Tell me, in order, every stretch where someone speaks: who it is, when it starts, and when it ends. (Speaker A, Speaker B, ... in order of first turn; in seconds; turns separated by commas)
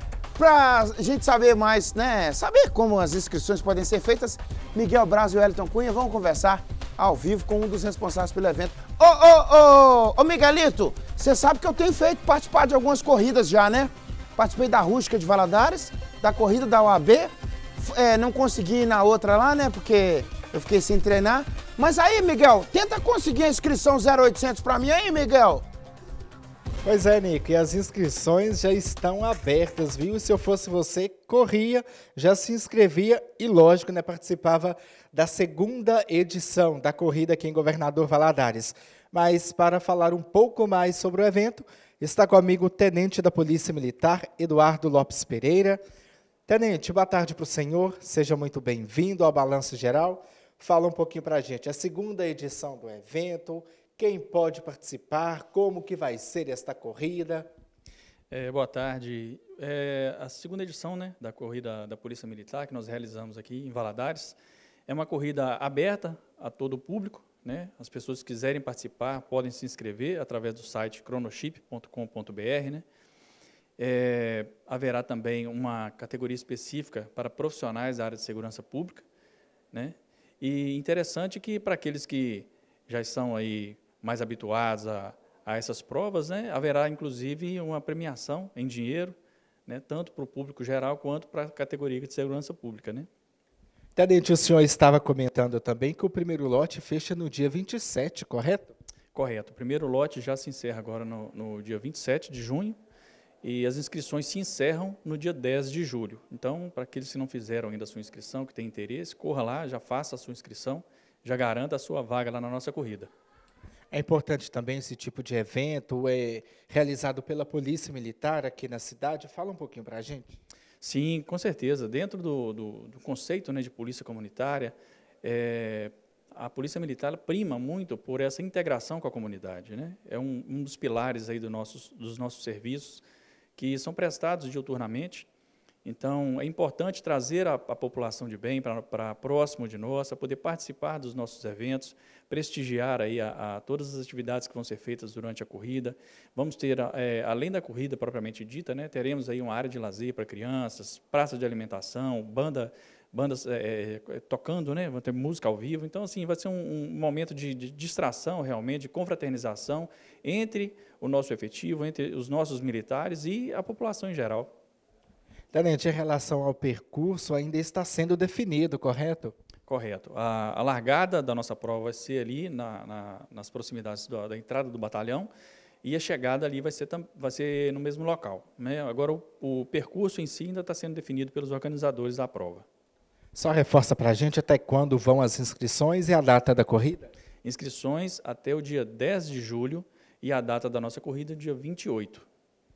Speaker A: 0.4-25.6, Speaker B: 26.8-45.8, Speaker B: 46.5-57.5, Speaker C: 58.3-72.8, Speaker C: 73.8-79.0, Speaker C: 79.7-89.1, Speaker C: 89.7-93.1, Speaker B: 94.0-98.7, Speaker C: 99.1-102.8, Speaker C: 103.4-113.1, Speaker B: 113.9-120.4, Speaker C: 120.8-133.0, Speaker C: 133.6-135.3, Speaker C: 135.8-164.5, Speaker B: 165.5-169.3, Speaker C: 169.7-175.3, Speaker C: 175.8-182.6, Speaker B: 183.3-187.1, Speaker C: 187.4-192.2